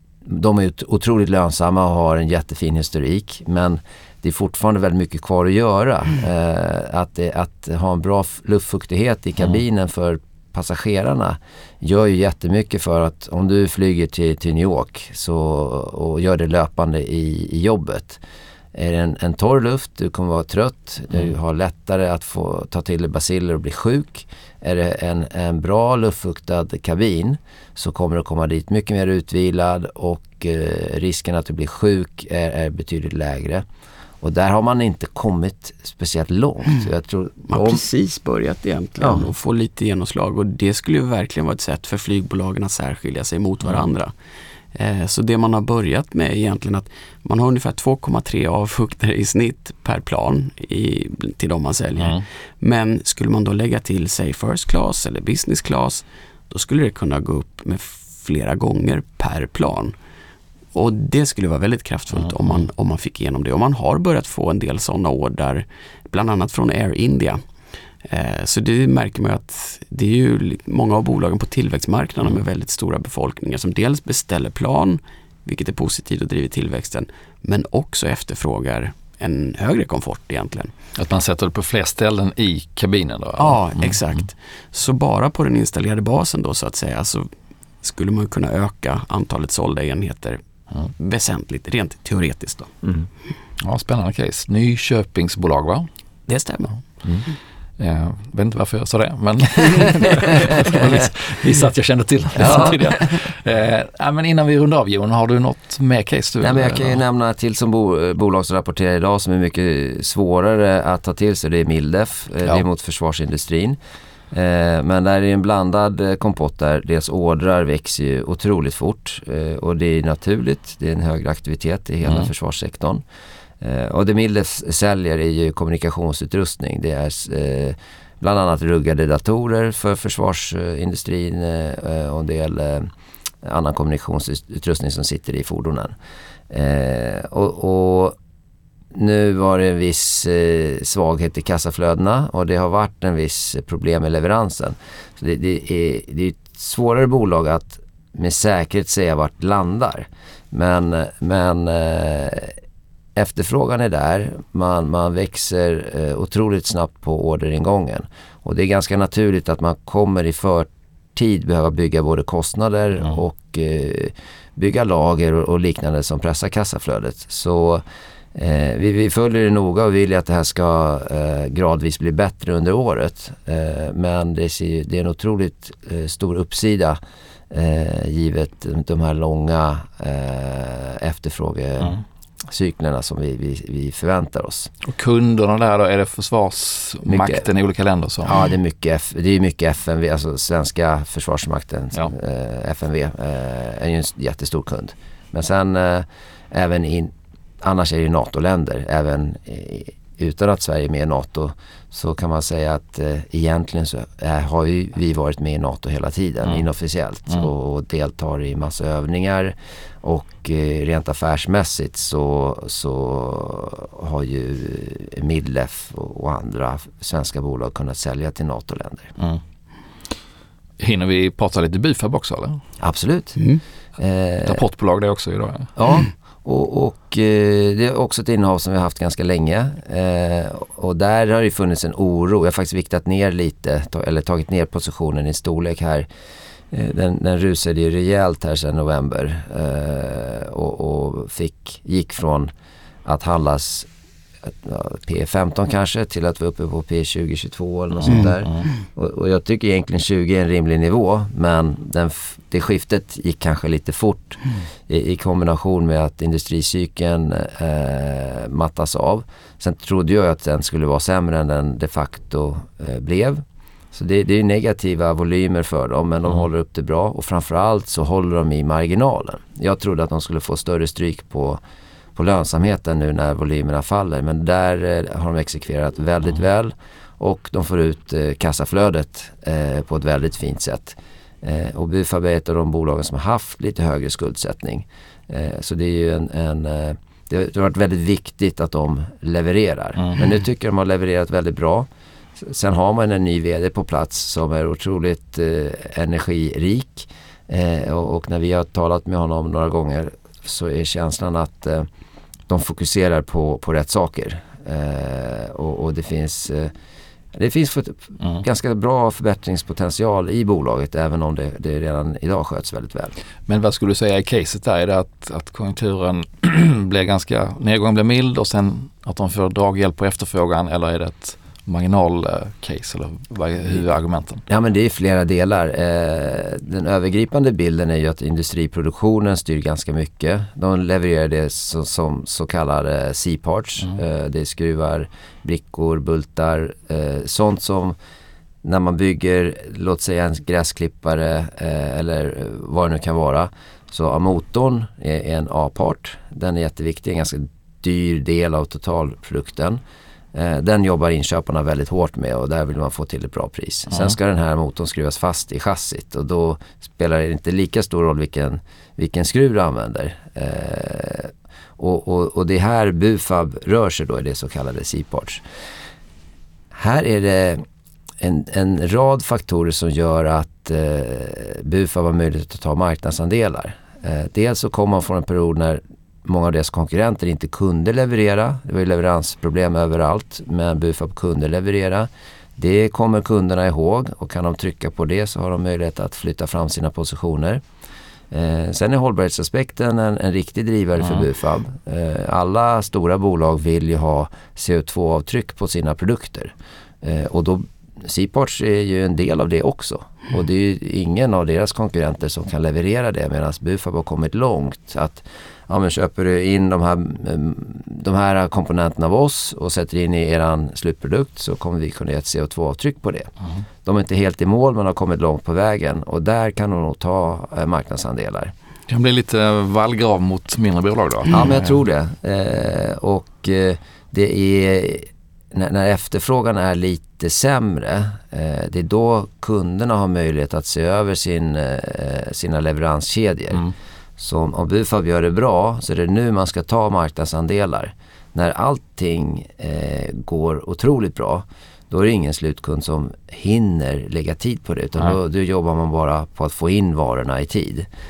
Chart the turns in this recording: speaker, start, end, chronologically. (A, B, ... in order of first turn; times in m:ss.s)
0:00.2-0:18.2 A
0:18.7-0:33.6 A
0:34.2-0:37.8 A
0:37.5-0:44.1 B
0:39.0-0:39.3 A
0:44.7-0:59.9 B
1:00.7-1:07.4 B
1:08.0-1:20.7 B
1:21.0-1:24.2 C
1:23.4-1:27.3 B
1:27.8-1:30.4 B
1:30.9-1:32.8 B
1:33.6-1:35.9 C
1:36.3-1:36.8 B
1:37.8-1:47.0 C
1:42.4-1:42.8 A
1:42.4-1:42.9 B
1:46.4-1:53.8 A
1:54.3-2:03.0 A
2:03.6-2:12.9 A
2:13.4-2:15.9 A
2:16.5-2:18.2 A
2:18.9-2:32.6 A
2:33.2-2:47.8 A
2:48.3-2:57.0 A
2:57.5-3:04.7 A
3:04.8-3:08.4 C
3:07.0-3:07.4 A
3:08.2-3:39.1 A
3:40.8-3:42.6 C
3:42.8-3:43.4 A
3:44.0-3:44.6 A
3:44.4-3:45.7 C
3:45.8-3:56.1 A
3:56.7-4:02.5 A
4:03.0-4:03.9 A
4:04.4-4:31.6 A
4:32.2-4:51.9 A
4:52.4-5:01.9 A
5:02.5-5:06.7 A
5:07.3-5:13.1 A
5:13.5-5:24.4 C
5:24.5-5:38.0 A
5:38.6-5:49.8 A
5:50.3-6:05.4 A
6:06.7-6:07.6 A
6:08.2-6:27.6 A
6:28.3-6:53.3 A
6:53.8-6:58.5 A
6:58.9-7:01.4 C
7:01.3-7:13.7 A
7:14.2-7:27.9 A